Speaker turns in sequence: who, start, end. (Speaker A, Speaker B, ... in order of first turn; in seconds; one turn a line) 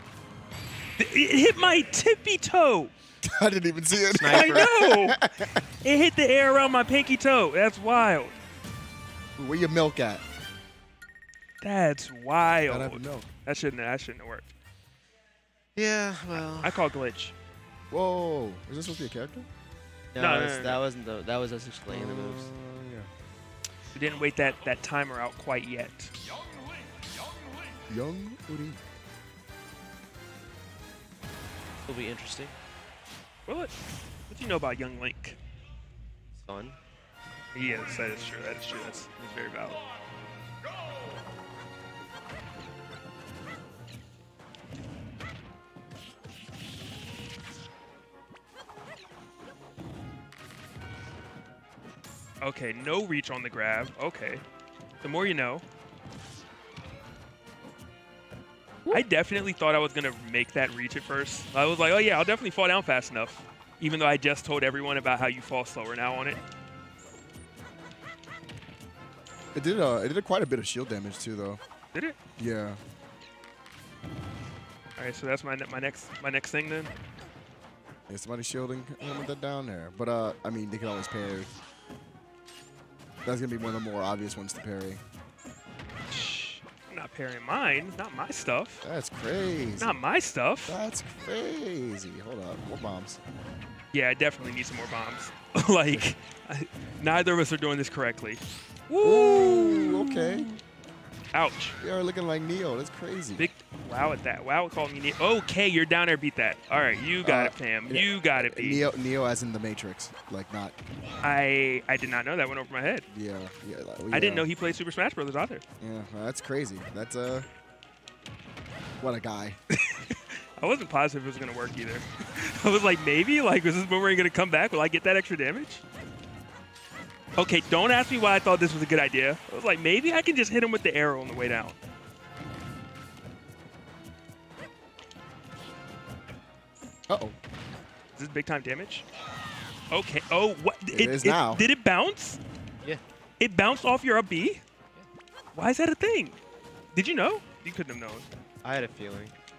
Speaker A: 1.0-2.9
Speaker B: 3.2-5.6
Speaker C: 4.2-4.7
Speaker A: 4.3-5.2
Speaker A: 5.8-8.4
Speaker B: 9.4-10.2
Speaker A: 11.6-14.5
Speaker B: 12.7-13.3
Speaker C: 15.8-16.8
Speaker A: 16.3-17.4
Speaker B: 17.9-19.5
Speaker C: 20.1-22.5
Speaker A: 20.2-20.8
Speaker B: 21.9-23.1
Speaker A: 23.9-26.1
Speaker B: 27.9-28.8
Speaker C: 31.9-32.5
Speaker A: 33.5-33.7
Speaker A: 34.3-35.4
Speaker C: 36.4-36.8
Speaker A: 37.5-39.8
Speaker A: 52.4-54.4
Speaker A: 55.0-55.6
Speaker A: 58.9-66.4
Speaker B: 69.5-71.6
Speaker B: 72.4-72.8
Speaker A: 75.0-76.9
Speaker B: 78.1-81.5
Speaker B: 83.2-85.0
Speaker A: 86.1-88.8
Speaker B: 88.8-90.0
Speaker A: 89.8-90.8
Speaker B: 90.7-93.2
Speaker A: 93.9-100.6
Speaker B: 99.0-100.5
Speaker A: 101.3-101.8
Speaker B: 101.8-103.5
Speaker A: 103.4-108.9
Speaker B: 107.2-110.8
Speaker A: 111.2-113.1
Speaker B: 113.1-114.5
Speaker A: 114.1-115.6
Speaker B: 115.8-117.5
Speaker B: 119.0-119.6
Speaker A: 119.8-125.8
Speaker A: 127.4-131.8
Speaker B: 137.1-137.4
Speaker A: 138.2-139.1
Speaker A: 139.9-142.4
Speaker B: 140.9-141.7
Speaker A: 143.4-144.6
Speaker A: 145.5-146.4
Speaker A: 146.9-148.3
Speaker C: 148.6-149.3